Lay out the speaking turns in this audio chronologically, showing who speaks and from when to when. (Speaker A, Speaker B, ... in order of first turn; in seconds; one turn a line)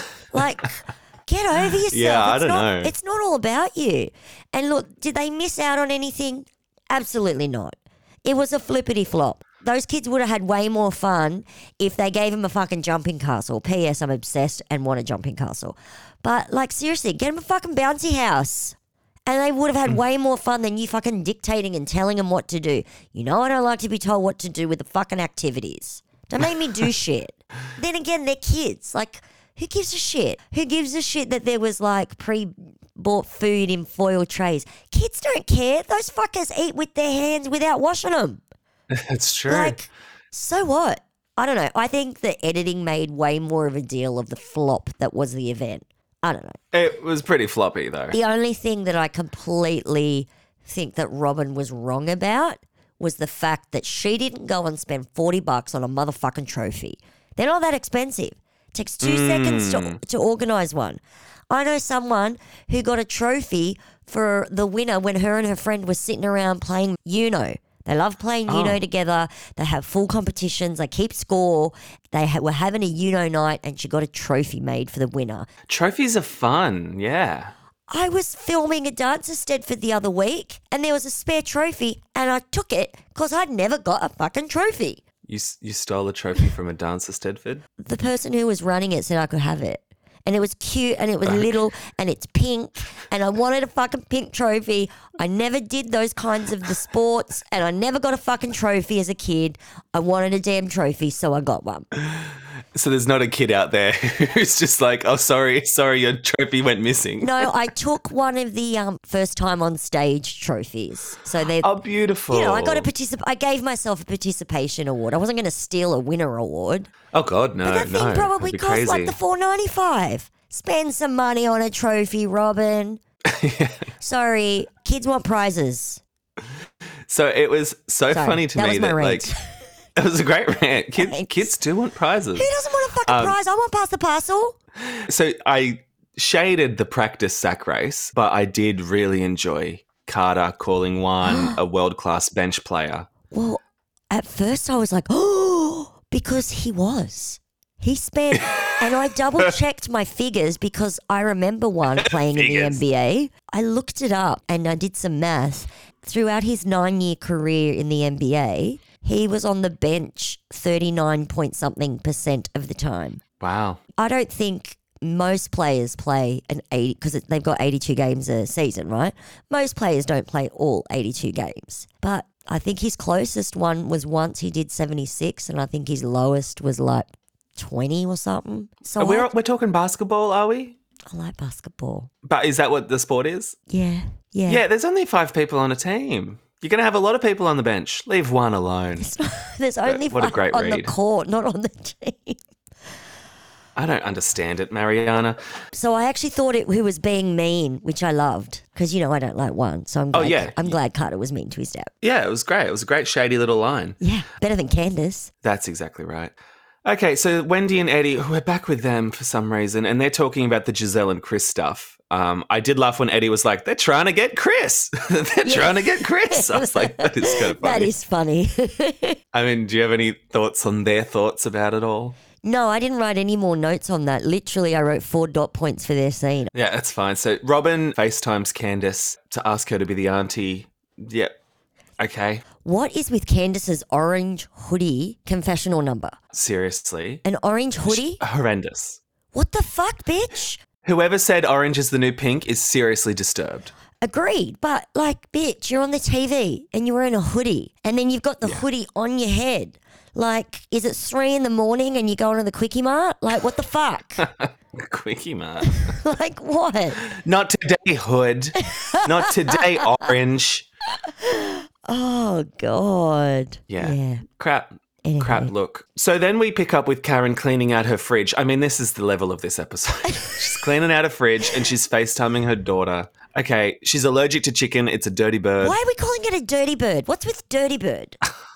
Speaker A: 0.3-38.4
Speaker B: 1.9-2.9
Speaker B: 38.9-39.8
Speaker A: 39.5-46.6
Speaker B: 46.7-48.2
Speaker A: 48.1-75.5
Speaker B: 59.0-60.0
Speaker B: 68.5-68.8
Speaker B: 75.7-77.5
Speaker A: 77.9-85.0
Speaker B: 85.3-87.6
Speaker A: 87.8-101.9
Speaker B: 102.1-107.5
Speaker A: 107.2-111.7
Speaker B: 111.6-112.9
Speaker A: 112.3-116.9
Speaker B: 117.1-119.2
Speaker A: 117.6-123.0
Speaker B: 123.3-123.8
Speaker A: 124.0-126.0
Speaker B: 127.1-129.3
Speaker A: 128.1-129.4
Speaker B: 130.0-132.5
Speaker A: 131.0-131.5
Speaker A: 132.4-134.6
Speaker B: 133.1-133.4
Speaker B: 134.9-143.1
Speaker A: 141.2-141.6
Speaker A: 143.3-163.2
Speaker B: 152.0-152.8
Speaker B: 163.4-163.8
Speaker A: 164.0-179.3
Speaker B: 179.0-180.8
Speaker A: 181.1-182.1
Speaker B: 182.2-183.6
Speaker A: 183.7-184.6
Speaker B: 184.5-189.1
Speaker A: 189.0-192.4
Speaker B: 189.8-190.9
Speaker B: 193.8-195.4
Speaker A: 195.7-201.9
Speaker B: 200.1-200.8
Speaker B: 202.0-204.0
Speaker A: 204.0-205.3
Speaker B: 205.4-206.3
Speaker B: 206.8-217.9
Speaker A: 215.4-219.2
Speaker B: 219.3-222.2
Speaker A: 222.4-226.5
Speaker B: 226.5-231.3
Speaker B: 232.0-232.4
Speaker A: 232.6-236.2
Speaker B: 236.3-237.2
Speaker A: 237.2-238.2
Speaker B: 237.8-239.0
Speaker A: 239.3-240.6
Speaker B: 240.8-243.7
Speaker A: 244.0-254.3
Speaker B: 254.2-256.0
Speaker A: 255.7-257.1
Speaker B: 257.1-260.7
Speaker A: 258.7-259.6
Speaker A: 261.1-264.2
Speaker B: 263.7-275.8
Speaker A: 265.0-265.5
Speaker A: 275.6-278.2